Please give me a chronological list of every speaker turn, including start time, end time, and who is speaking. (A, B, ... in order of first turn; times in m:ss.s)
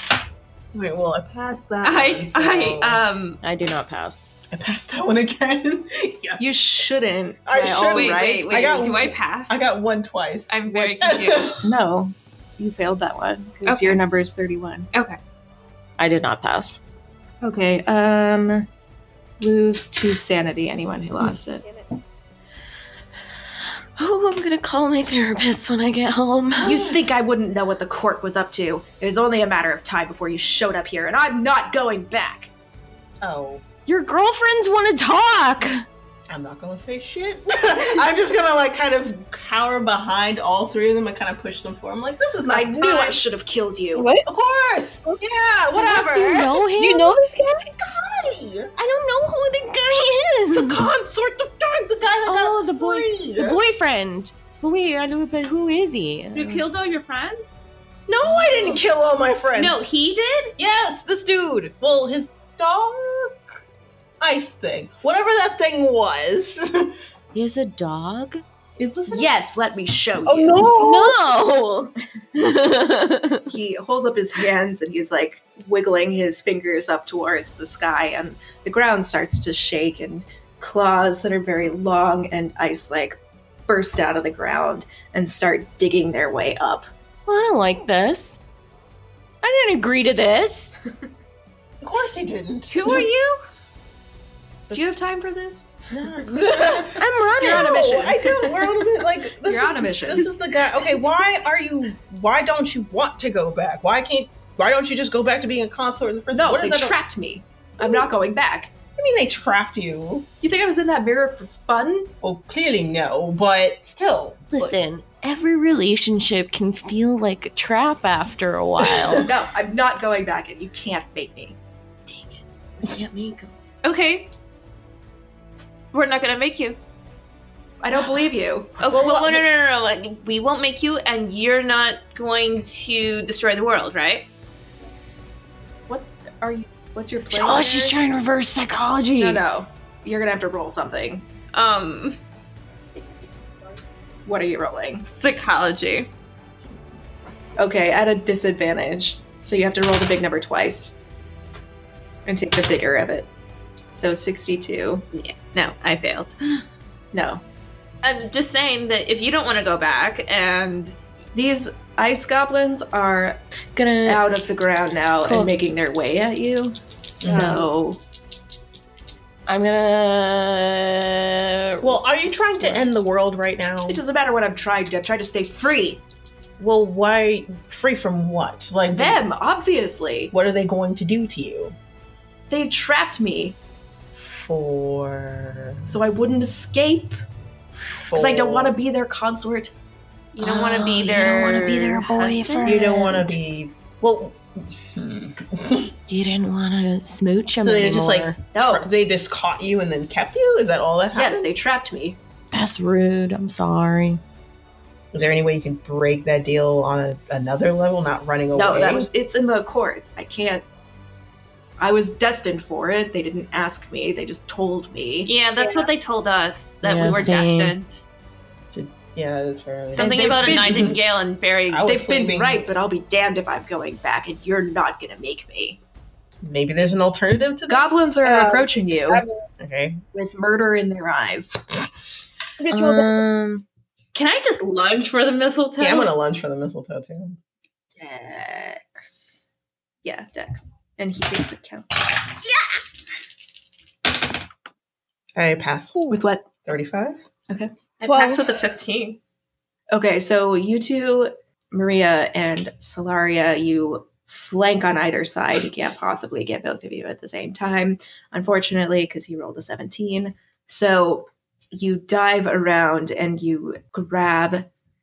0:00.7-0:03.0 A
0:01.8-0:03.4 B
0:03.4-0:04.3 C
0:04.5-0:06.4 A
0:06.4-0:09.1 D
0:07.4-0:11.6 A
0:07.9-0:09.6 B
0:10.5-0:11.6 B
0:10.7-0:14.9 D
0:13.6-0:14.0 B
0:14.9-0:15.2 B
0:16.0-0:16.8 C
0:17.4-0:18.7 D
0:19.4-0:21.6 D
0:24.0-0:26.9 C
0:26.6-0:32.5 D
0:33.2-0:33.6 A
0:33.8-0:35.8 C
0:36.3-0:43.2 A
0:42.5-0:44.1 D
0:43.9-0:44.2 E
0:44.2-0:46.6 A
0:45.7-0:47.2 C
0:46.7-0:47.7 E
0:47.8-0:48.7 A
0:48.8-0:50.9 C
0:50.5-0:53.6 A
0:52.2-0:56.6 C
0:56.3-0:57.7 B
0:58.1-0:59.8 A
0:59.5-1:00.5 B
1:00.6-1:03.4 A
1:04.2-1:07.0 A
1:07.3-1:08.4 C
1:08.8-1:09.4 A
1:09.1-1:10.7 D
1:10.2-1:11.2 E
1:10.7-1:13.5 C
1:13.5-1:26.8 D
1:27.3-1:28.4 C
1:29.4-1:30.7 C
1:31.8-1:33.1 A
1:32.7-1:33.4 B
1:34.7-1:35.7 D
1:35.9-1:47.0 A
1:36.8-1:38.0 C
1:37.4-1:40.3 D
1:46.3-1:48.7 D
1:49.0-1:50.3 A
1:50.4-1:52.1 D
1:52.2-1:54.8 A
1:54.5-1:59.3 C
1:58.8-1:59.2 A
1:59.2-2:01.6 D
2:02.1-2:03.5 C
2:03.8-2:04.3 B
2:05.9-2:06.8 B
2:07.8-2:08.9 D
2:08.8-2:14.3 B
2:08.8-2:09.4 A
2:15.9-2:18.0 D
2:17.3-2:19.4 C
2:19.2-2:21.2 D
2:21.5-2:22.2 B
2:24.2-2:25.0 D
2:25.0-2:26.1 B
2:27.6-2:30.9 D
2:32.2-2:33.3 D
2:33.9-2:35.0 D
2:35.1-2:36.6 B
2:37.1-2:37.4 D
2:38.0-2:41.0 B
2:41.3-2:43.4 D
2:43.7-2:44.2 C
2:44.0-2:48.0 D
2:45.2-2:45.5 C
2:47.2-2:47.6 A
2:47.3-2:47.5 C
2:49.5-2:52.0 C
2:51.8-2:54.0 A
2:53.9-2:56.0 D
2:56.6-2:59.2 A
2:58.9-3:00.3 D
3:00.3-3:01.8 A
3:02.5-3:03.6 D
3:04.2-3:05.9 A
3:05.8-3:07.2 D
3:07.8-3:08.7 A
3:08.1-3:09.7 D
3:10.3-3:12.8 B
3:10.4-3:13.4 C
3:12.6-3:15.9 A
3:16.1-3:18.4 C
3:17.6-3:21.5 A
3:18.5-3:18.9 D
3:21.1-3:22.2 D
3:22.5-3:24.2 C
3:25.1-3:29.1 A
3:28.5-3:30.6 D
3:31.8-3:35.3 D
3:35.2-3:38.0 B
3:35.6-3:35.9 E
3:36.8-3:37.8 C
3:38.7-3:41.0 A
3:39.9-3:41.0 D
3:39.9-3:41.9 B
3:41.7-3:42.7 A
3:41.8-3:45.8 D
3:46.4-3:48.1 A
3:47.7-3:49.2 D
3:48.2-3:49.4 E
3:49.6-3:50.0 A
3:50.1-3:51.6 D
3:52.6-3:53.2 E
3:52.7-3:53.6 C
3:54.1-3:56.1 B
3:55.8-3:57.4 A
3:58.0-3:59.4 D
4:00.0-4:02.6 D
4:05.4-4:06.0 A
4:06.1-4:06.5 D
4:06.6-4:07.2 A
4:07.5-4:09.2 D
4:08.0-4:09.1 B
4:08.0-4:08.4 E
4:09.9-4:24.7 D